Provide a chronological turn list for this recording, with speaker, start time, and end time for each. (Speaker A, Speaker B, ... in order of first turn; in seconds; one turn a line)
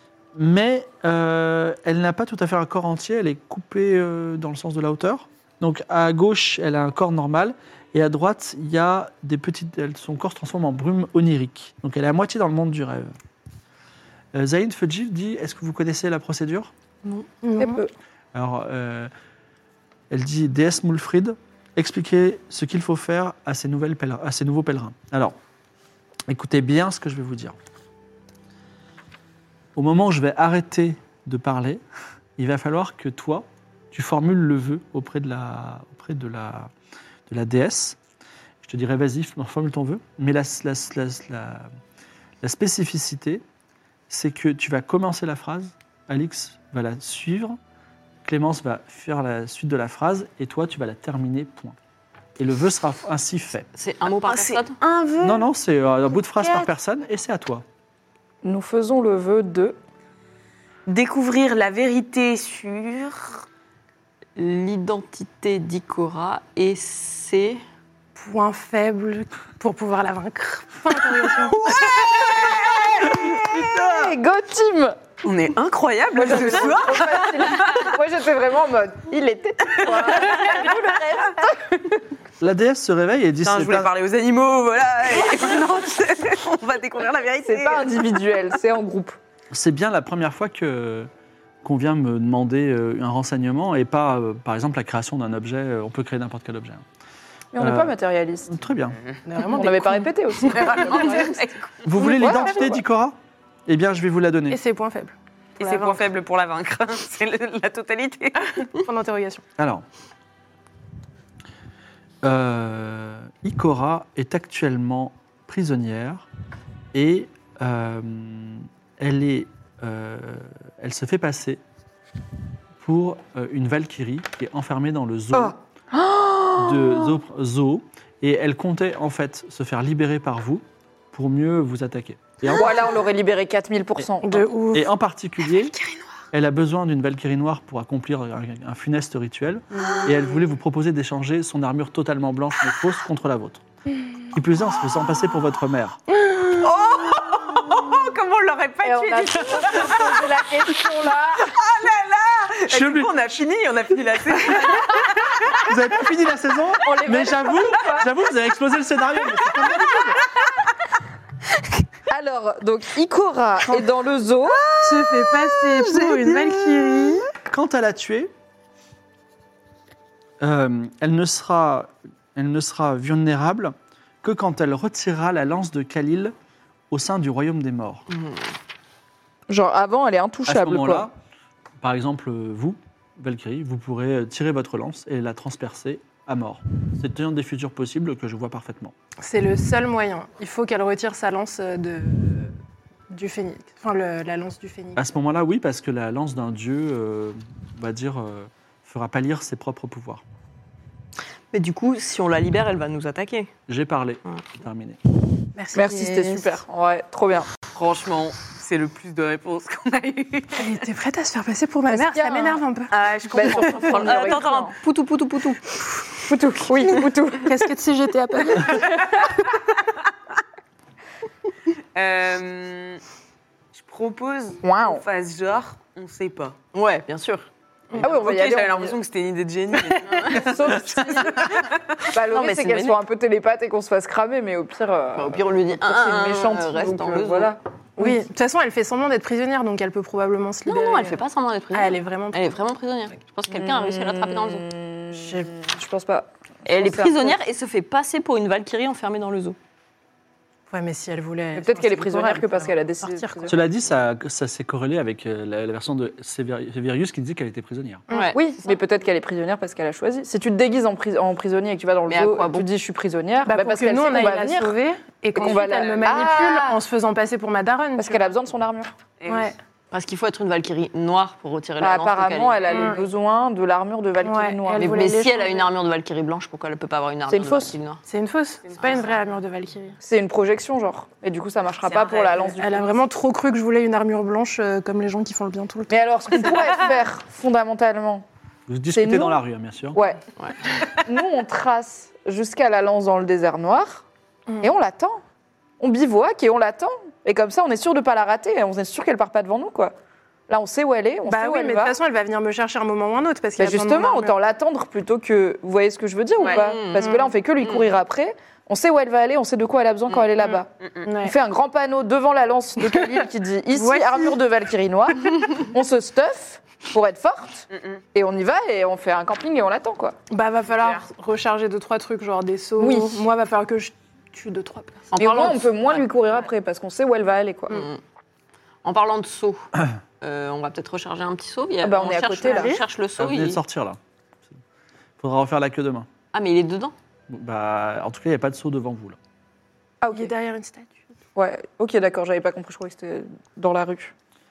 Speaker A: 0.3-13.1
Speaker A: 14.3-16.7
Speaker B: 17.1-17.9
Speaker C: 17.4-17.8
Speaker A: 18.3-19.1
Speaker A: 20.1-25.4
Speaker A: 26.3-27.6
Speaker A: 29.7-31.8
Speaker A: 32.4-36.7
Speaker A: 37.3-38.0
Speaker A: 38.6-41.7
Speaker A: 42.4-43.4
Speaker A: 44.1-47.6
Speaker A: 48.2-51.8
Speaker A: 52.4-53.7
Speaker D: 53.7-54.8
Speaker E: 54.0-55.5
Speaker A: 55.2-57.6
Speaker E: 56.4-56.7
Speaker B: 58.4-59.8
Speaker E: 60.9-63.4
Speaker D: 64.4-67.6
Speaker C: 68.2-71.6
Speaker D: 71.6-73.2
Speaker E: 71.7-72.7
Speaker A: 73.0-74.1
Speaker B: 73.6-75.0
Speaker E: 75.2-77.9
Speaker B: 76.1-81.8
Speaker E: 79.9-80.7
Speaker A: 82.4-83.9
Speaker E: 83.4-87.9
Speaker B: 87.4-89.2
Speaker A: 89.5-91.1
Speaker A: 91.6-96.8
Speaker B: 97.5-98.5
Speaker A: 97.6-97.9
Speaker A: 98.5-99.0
Speaker C: 99.2-101.3
Speaker B: 99.5-101.4
Speaker D: 100.6-101.4
Speaker E: 100.8-101.4
Speaker A: 101.8-104.6
Speaker C: 102.0-102.5
Speaker B: 102.0-102.8
Speaker C: 104.5-106.0
Speaker E: 105.6-108.3
Speaker D: 105.6-107.4
Speaker D: 108.2-108.6
Speaker C: 108.7-109.4
Speaker A: 109.6-109.8
Speaker A: 112.2-116.3
Speaker A: 116.9-121.6
Speaker A: 122.8-125.5
Speaker B: 125.3-127.1
Speaker A: 126.5-132.9
Speaker B: 132.4-134.5
Speaker C: 134.2-134.9
Speaker A: 134.7-135.7
Speaker E: 135.6-135.9
Speaker A: 136.3-143.6
Speaker A: 144.3-146.0
Speaker E: 146.4-155.7
Speaker B: 148.8-151.5
Speaker A: 152.7-153.1
Speaker A: 155.5-160.2
Speaker B: 156.8-158.1
Speaker B: 162.1-164.6
Speaker E: 164.6-167.2
Speaker C: 164.8-167.2
Speaker A: 167.5-168.3
Speaker A: 170.4-176.3
Speaker A: 176.9-178.1
Speaker B: 179.5-181.1
Speaker A: 180.4-181.2
Speaker A: 181.8-188.9
Speaker C: 189.2-192.5
Speaker C: 193.1-195.0
Speaker A: 194.9-200.2
Speaker D: 201.5-203.5
Speaker A: 203.7-205.0
Speaker C: 205.6-206.6
Speaker B: 205.7-207.5
Speaker E: 207.7-210.8
Speaker C: 210.5-213.9
Speaker B: 211.9-212.6
Speaker E: 212.9-214.5
Speaker B: 213.3-214.8
Speaker D: 213.5-215.6
Speaker B: 216.2-217.6
Speaker C: 217.4-219.2
Speaker E: 221.9-223.0
Speaker E: 223.7-226.6
Speaker B: 224.6-225.0
Speaker D: 226.7-228.1
Speaker E: 228.0-231.7
Speaker B: 228.0-229.0
Speaker D: 230.2-230.7
Speaker B: 230.2-238.2
Speaker D: 231.4-232.9
Speaker D: 235.2-237.5
Speaker C: 238.0-241.2
Speaker D: 240.7-244.6
Speaker C: 241.7-242.6
Speaker B: 243.5-247.4
Speaker C: 245.1-245.5
Speaker D: 246.7-249.6
Speaker C: 250.7-253.6
Speaker B: 251.5-253.6
Speaker A: 253.5-258.0
Speaker D: 258.1-258.8
Speaker C: 258.1-258.4
Speaker B: 258.3-264.7
Speaker D: 262.1-262.7
Speaker C: 263.4-268.3
Speaker B: 265.3-266.8
Speaker B: 267.9-268.9
Speaker E: 269.2-269.5
Speaker C: 269.3-269.6
Speaker D: 269.9-272.9
Speaker B: 271.8-275.1
Speaker C: 272.7-273.0
Speaker C: 274.2-275.7
Speaker D: 274.7-278.0
Speaker B: 277.3-277.8
Speaker C: 278.1-279.9
Speaker B: 280.0-282.9
Speaker D: 281.8-282.5
Speaker C: 282.6-286.9
Speaker B: 285.9-288.2
Speaker A: 288.7-290.0
Speaker B: 288.9-290.2
Speaker B: 290.9-294.0
Speaker B: 294.6-295.2
Speaker B: 295.8-299.9
Speaker B: 300.5-301.9
Speaker C: 301.3-304.4
Speaker B: 303.6-310.7
Speaker D: 306.4-307.1
Speaker C: 306.4-307.3
Speaker C: 310.4-311.4
Speaker B: 311.2-320.2
Speaker C: 313.7-314.4
Speaker C: 320.3-325.1
Speaker B: 322.8-323.2
Speaker D: 325.1-325.9
Speaker B: 325.1-327.9
Speaker D: 327.7-328.0
Speaker D: 328.8-329.7
Speaker D: 330.2-333.6
Speaker B: 331.8-332.8
Speaker C: 332.4-332.8
Speaker A: 333.2-334.0
Speaker A: 335.2-336.1
Speaker D: 336.3-336.9
Speaker A: 337.3-339.2
Speaker B: 340.0-340.3
Speaker C: 340.1-341.0
Speaker B: 341.4-344.1